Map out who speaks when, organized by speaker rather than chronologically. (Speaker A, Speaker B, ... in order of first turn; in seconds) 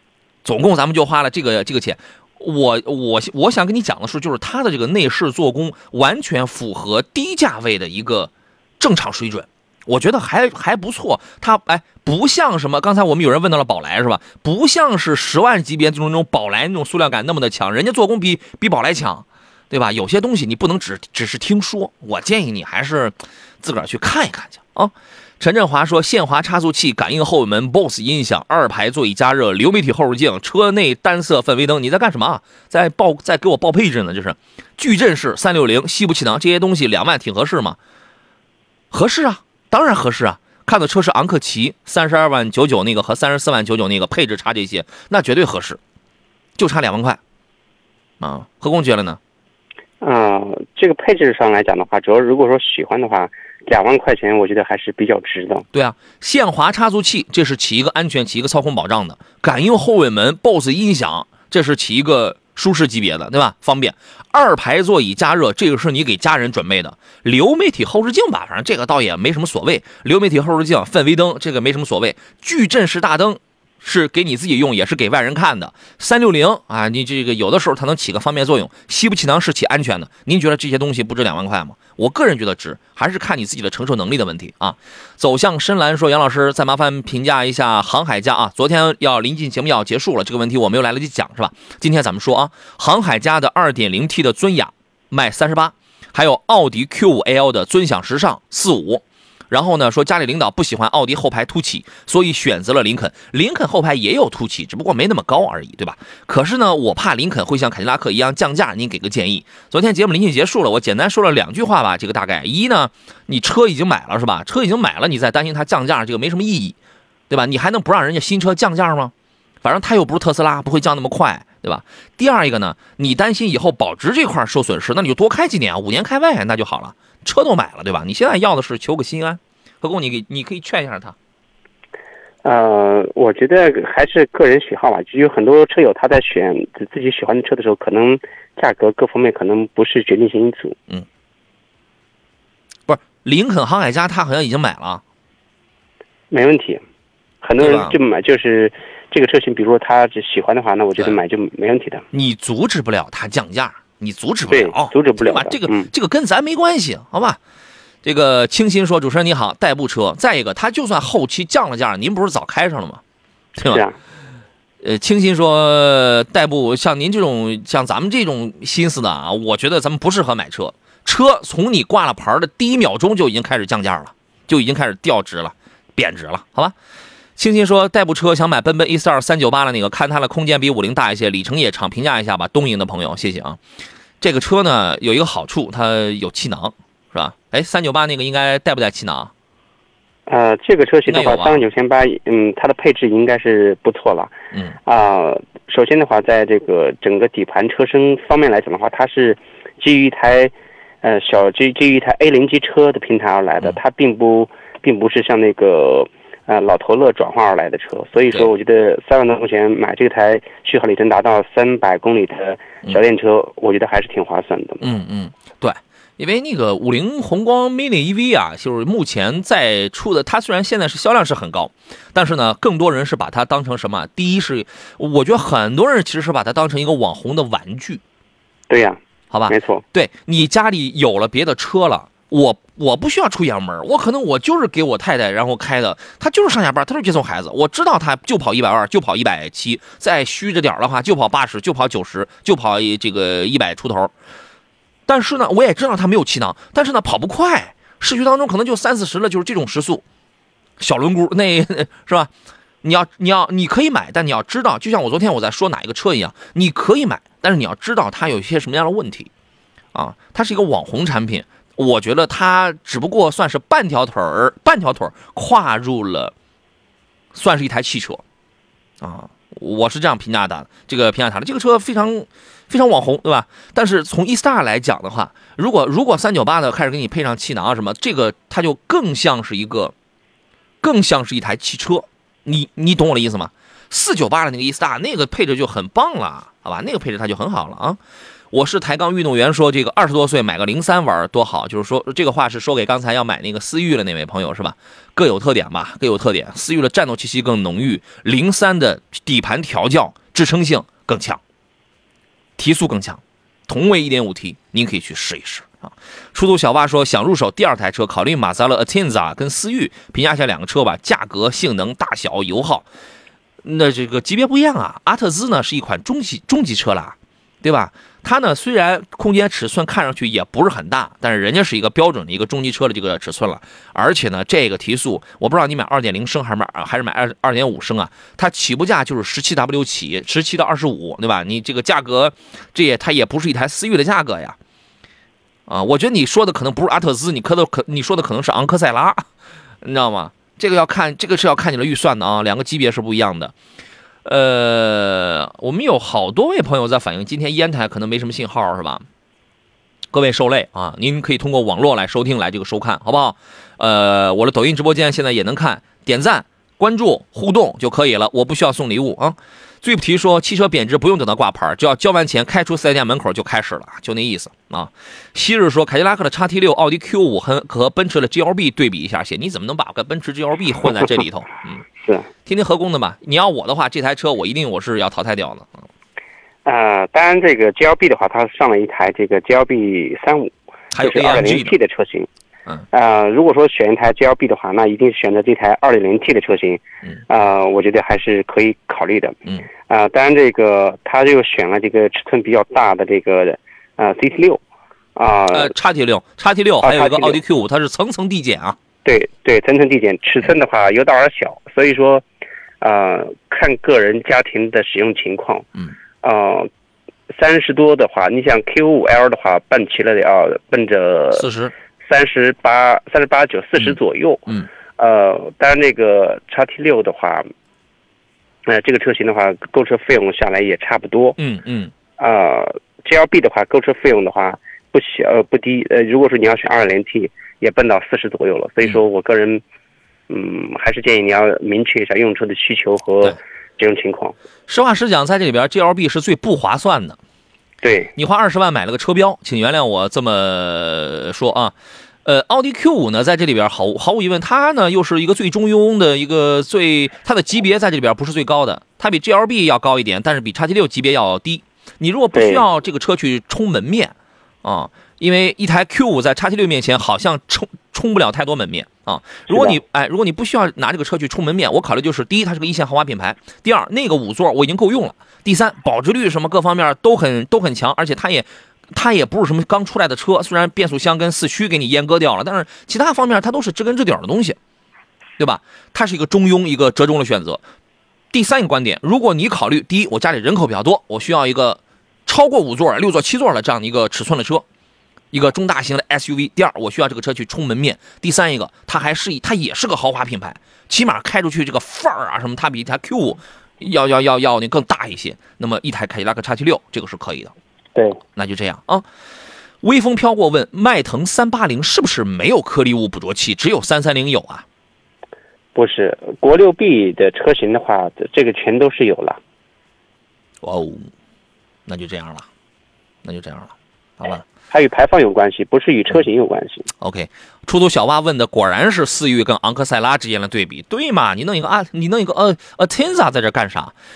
Speaker A: 0.4-37.8, 38.9-45.8, 46.6-47.2, 48.2-49.2, 55.7-116.8, 117.3-119.1, 119.6-131.1, 142.9-145.0, 147.6-147.9, 152.1-157.4, 158.0-163.0, 163.6-163.8, 164.8-176.7, 177.4-183.6, 184.2-189.3, 191.1-191.6, 214.8-228.0, 229.3-244.1, 245.1-250.0, 250.8-252.3, 252.8-259.3, 259.9-266.3, 267.3-268.2, 269.0-279.9, 280.8-288.0, 288.5-301.4, 302.6-312.9, 313.6-334.6, 335.7-339.2, 339.8-343.5, 344.2-349.0, 350.1-371.8, 372.4-375.9, 380.9-381.8, 395.5-398.8, 411.3-411.7, 421.4-421.9, 434.7-437.2, 438.1-441.7, 442.2-474.6, 475.4-477.6, 478.3-484.6, 485.3-497.5, 498.4-499.0, 499.8-504.6, 510.6-511.1, 511.9-512.5, 513.2-514.4, 517.0-523.9
Speaker B: 50.0-55.6, 132.4-140.8, 146.3-146.8, 147.4-152.0, 154.5-155.9, 163.6-163.9, 190.3-194.3, 194.9-214.9, 228.7-229.0, 229.5-229.8, 372.0-372.3, 376.6-382.3, 382.9-389.4, 389.9-394.6, 395.1-395.7, 396.8-397.4, 399.0-402.2, 402.8-405.7, 406.2-406.7, 407.3-411.4, 412.0-414.5, 415.0-417.5, 418.7-421.4, 422.2-429.6, 430.3-434.4, 437.8-438.1, 452.3-452.6, 459.5-459.8, 505.7-509.4, 514.7-516.9